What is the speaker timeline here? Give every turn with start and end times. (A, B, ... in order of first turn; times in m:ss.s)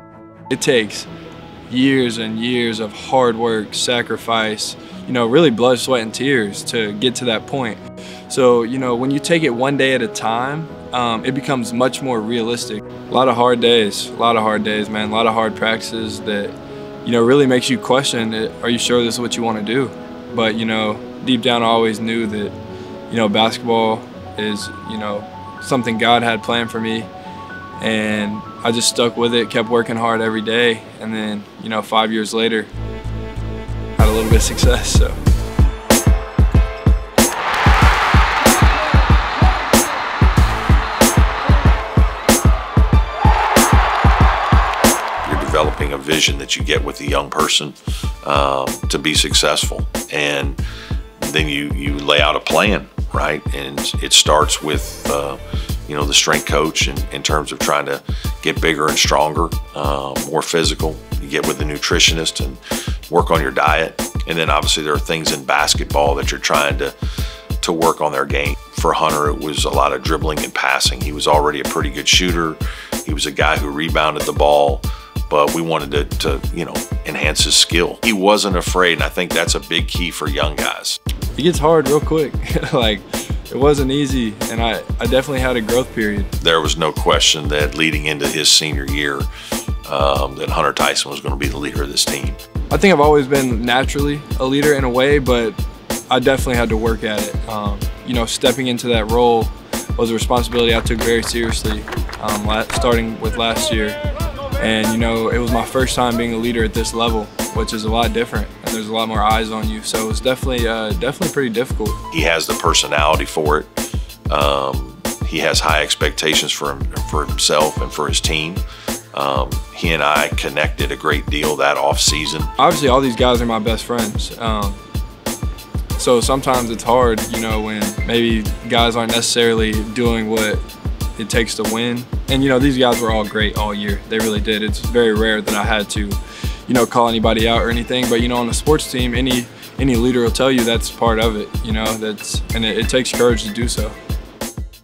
0:00.5-0:01.1 A
0:01.7-0:22.5 A
0:23.1-0:27.1 A
0:27.8-0:32.7 A
0:34.0-0:35.2 A
0:45.2-0:50.6 B
0:51.2-1:06.9 B
1:07.6-1:21.0 B
1:21.4-1:26.3 A
1:26.4-1:29.3 B
1:29.8-1:32.4 B
1:32.7-1:35.6 A
1:36.1-1:44.0 A
1:44.6-1:52.0 A
1:52.1-1:53.7 B
1:54.3-1:58.6 B
1:59.1-2:02.5 B
2:02.6-2:04.8 A
2:06.0-2:10.6 A
2:11.2-2:23.9 A